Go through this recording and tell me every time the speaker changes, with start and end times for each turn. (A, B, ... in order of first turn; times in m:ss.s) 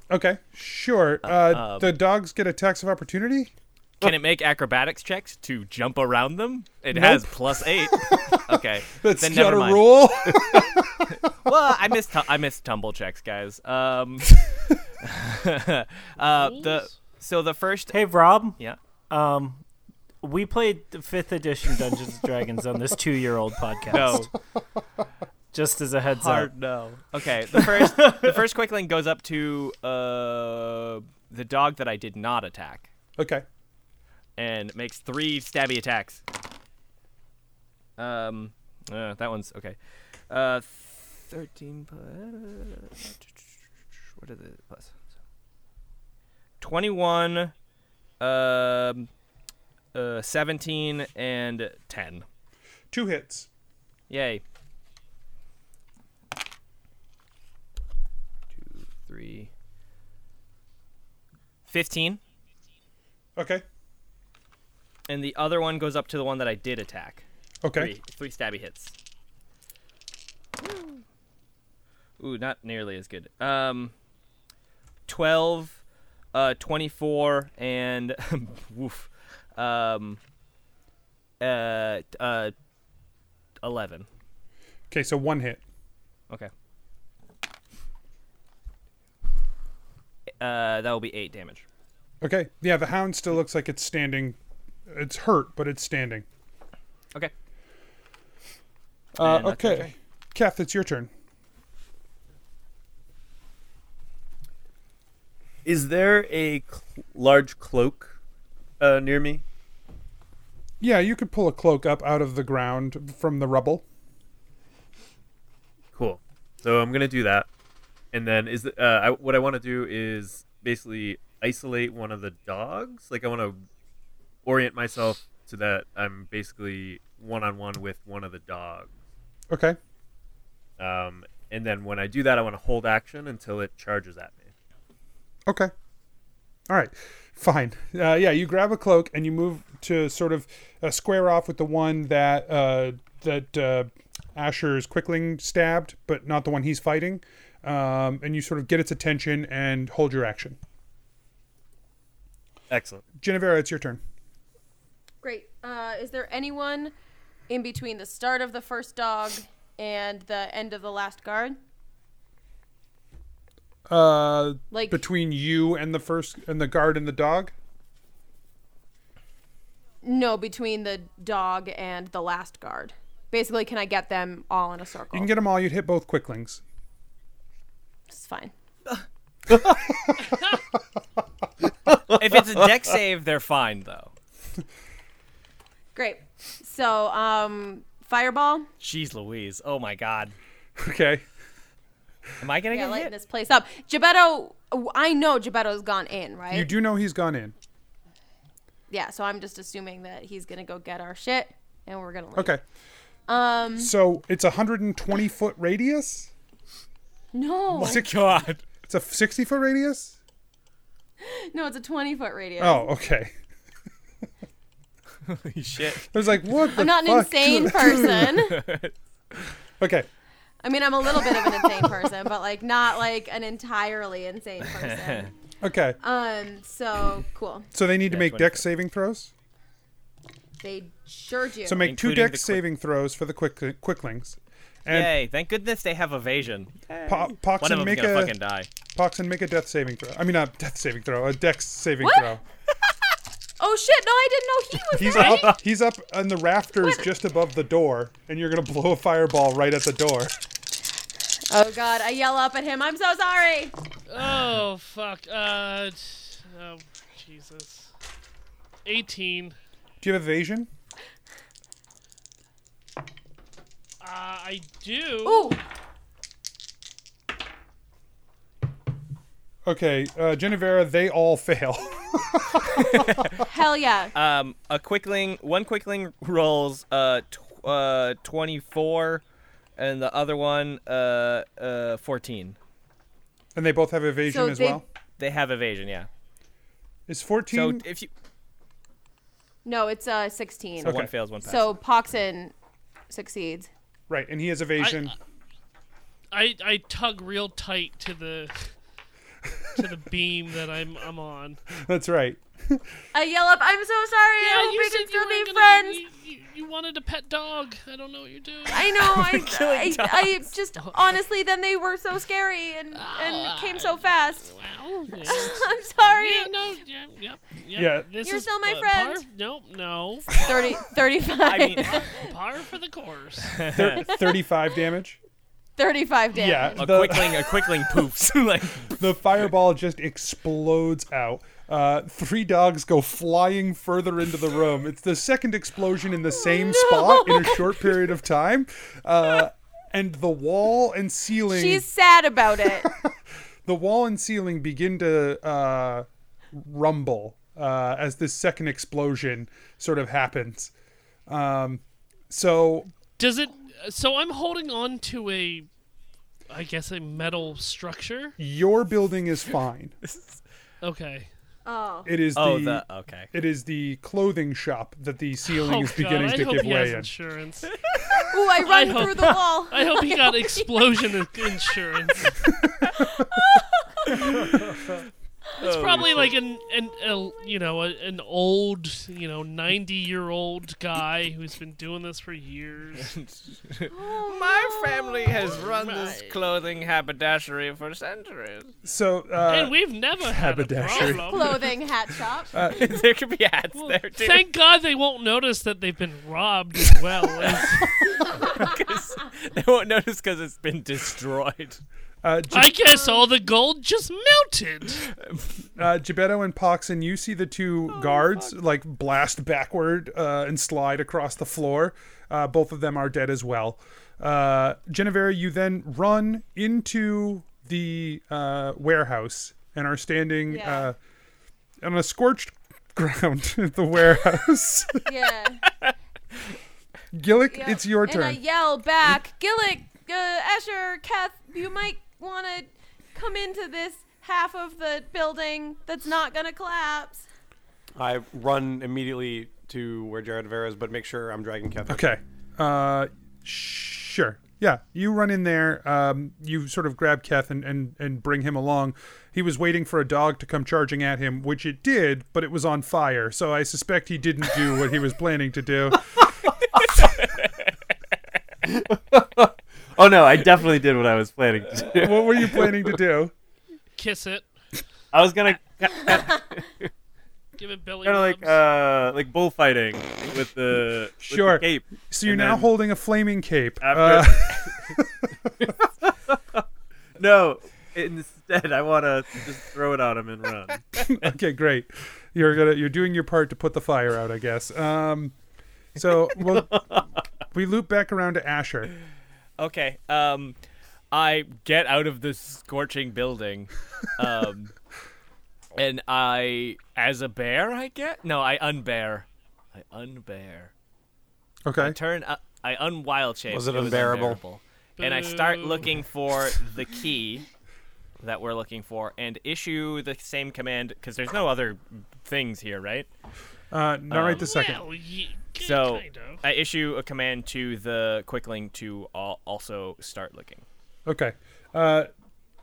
0:00.1-0:03.5 A
0:01.2-0:01.9 B
0:04.0-0:10.1 B
0:06.9-0:11.1 A
0:11.4-0:14.4 B
0:15.0-0:18.0 B
0:16.4-0:17.0 C
0:17.9-0:18.6 D
0:19.1-0:19.6 D
0:20.2-0:24.3 D
0:23.9-0:24.3 B
0:25.5-0:26.5 D
0:26.1-0:32.9 B
0:27.5-0:28.4 D
0:33.2-0:33.4 A
0:34.4-0:36.2 B
0:38.0-0:39.8 B
0:40.3-0:44.9 B
0:46.6-0:47.5 B
0:48.2-0:49.1 B
0:49.9-0:52.2 B
0:52.9-0:53.5 A
0:54.1-0:54.4 B
0:58.5-0:59.5 B
1:01.7-1:02.2 B
1:03.4-1:03.6 A
1:05.1-1:07.2 B
1:07.6-1:07.9 A
1:07.8-1:09.0 B
1:10.6-1:11.0 B
1:12.2-1:13.9 B
1:15.1-1:15.8 B
1:16.3-1:20.2 B
1:21.4-1:22.5 B
1:23.6-1:24.1 B
1:24.9-1:25.6 A
1:30.4-1:31.6 B
1:32.2-1:34.4 A
1:34.9-1:36.3 A
1:39.2-1:41.1 A
1:39.2-1:39.9 B
1:45.6-1:48.2 E
1:48.8-1:49.4 E
1:50.8-1:53.8 A
1:55.9-1:57.5 E
1:58.1-2:03.6 E
2:04.4-2:08.9 E
2:09.5-2:09.8 A
2:10.8-2:14.5 E
2:15.5-2:15.7 A
2:16.7-2:30.6 A
2:32.7-2:33.0 E
2:33.2-2:34.0 A
2:35.2-2:36.9 F
2:37.5-2:41.6 F
2:43.9-2:47.5 A
2:44.7-2:45.0 F
2:50.0-2:55.3 F
2:55.1-2:56.6 A
2:58.1-2:58.5 F
3:02.2-3:02.7 E
3:02.2-3:04.1 B
3:06.0-3:08.7 F
3:08.8-3:10.4 B
3:10.8-3:11.2 A
3:12.4-3:13.1 B
3:12.7-3:16.7 F
3:16.5-3:17.5 A
3:18.9-3:22.6 F
3:22.4-3:22.6 A
3:23.3-3:23.9 F
3:23.8-3:26.3 A
3:27.3-3:28.0 F
3:27.7-3:28.6 B
3:27.8-3:30.2 A
3:31.2-3:32.9 F
3:32.6-3:33.3 A
3:35.3-3:36.1 B
3:36.1-3:38.4 A
3:36.7-3:38.6 F
3:38.4-3:38.9 B
3:39.8-3:40.1 A
3:40.6-3:45.3 F
3:44.6-3:45.3 B
3:45.6-3:46.0 A
3:46.0-3:47.7 F
3:47.7-3:49.3 A
3:48.1-3:48.6 B
3:50.6-3:51.9 F
3:51.6-3:55.2 A
3:51.8-3:52.6 B
3:54.9-3:58.7 B
3:57.1-3:58.4 A
3:58.9-4:02.4 A
4:02.0-4:02.3 F
4:03.6-4:05.6 F
4:04.9-4:10.3 A
4:06.8-4:07.1 F
4:11.5-4:13.7 F
4:14.1-4:17.9 C
4:18.8-4:19.6 C
4:20.0-4:20.7 A
4:24.0-4:25.6 C
4:25.2-4:25.6 F
4:29.7-4:33.1 A
4:32.8-4:33.4 B
4:33.4-4:34.1 F
4:34.2-4:39.2 B
4:39.8-4:42.6 B
4:43.6-4:44.8 A
4:44.3-4:44.8 F
4:45.2-4:46.1 B
4:47.1-4:47.8 A
4:47.5-4:48.1 B
4:49.6-4:52.5 F
4:50.8-4:51.1 A
4:50.8-4:51.8 B
4:53.1-4:53.7 F
4:54.1-4:55.1 A
4:54.8-4:55.1 C
4:56.3-4:58.7 C
4:59.8-5:01.6 C
5:01.7-5:02.8 A
5:03.1-5:06.0 F
5:04.4-5:08.9 C
5:08.7-5:14.5 F
5:09.0-5:10.5 B
5:13.0-5:20.8 C
5:15.2-5:16.5 F
5:17.7-5:18.1 A
5:18.2-5:19.2 F
5:20.3-5:22.3 F
5:21.3-5:22.0 B
5:21.8-5:23.6 C
5:23.5-5:24.1 B
5:23.7-5:25.2 A
5:25.8-5:27.6 F
5:26.3-5:27.4 A
5:26.8-5:29.0 B
5:29.0-5:41.9 A
5:36.3-5:37.9 F
5:41.5-5:42.9 F
5:42.8-5:43.1 A
5:43.7-5:50.7 A
5:51.3-5:52.9 A
5:53.2-5:55.7 C
5:56.5-5:58.4 C
5:58.4-6:00.0 A
6:00.0-6:00.4 B
6:00.8-6:01.3 C
6:01.7-6:02.1 F
6:02.0-6:07.1 A
6:02.4-6:03.3 B
6:05.5-6:07.7 C
6:07.7-6:08.2 B
6:08.2-6:10.7 F
6:08.6-6:12.4 C
6:13.0-6:13.7 F
6:14.1-6:14.4 B
6:15.6-6:16.4 B
6:15.6-6:23.1 C
6:23.0-6:28.7 B
6:23.9-6:25.6 F
6:25.4-6:26.4 C
6:28.8-6:31.5 A
6:29.5-6:31.7 C
6:31.0-6:32.7 F
6:32.5-6:32.9 A
6:32.7-6:34.4 B
6:33.8-6:38.4 C
6:37.3-6:37.8 B
6:38.1-6:38.7 F
6:38.4-6:41.8 B
6:42.2-6:43.0 A
6:42.5-6:45.1 C
6:45.1-6:45.5 B
6:45.8-7:01.0 A
6:48.0-6:48.5 B
7:00.5-7:00.9 F
7:01.8-7:05.1 A
7:05.1-7:05.6 F
7:07.1-7:08.4 A
7:07.5-7:17.3 F
7:18.0-7:22.1 G
7:21.9-7:36.0 A
7:36.7-7:38.2 B
7:38.6-7:42.9 E
7:41.9-7:43.3 A
7:44.0-7:44.5 C
7:45.1-7:46.9 E
7:47.6-7:48.6 C
7:48.0-7:52.7 E
7:51.2-7:55.3 A
7:53.8-7:54.9 E
7:55.6-7:56.6 E
7:57.2-8:01.3 E
8:01.1-8:05.4 A
8:06.0-8:06.8 A
8:06.4-8:07.0 E
8:07.5-8:08.9 A
8:09.6-8:10.6 B
8:11.1-8:14.7 B
8:15.8-8:20.7 B
8:21.7-8:22.0 A
8:21.8-8:27.5 B
8:23.5-8:24.4 G
8:25.0-8:26.0 C
8:28.2-8:33.1 B
8:33.7-8:34.8 A
8:34.1-8:34.5 B
8:34.4-8:36.4 C
8:35.6-8:40.6 B
8:41.1-8:42.1 A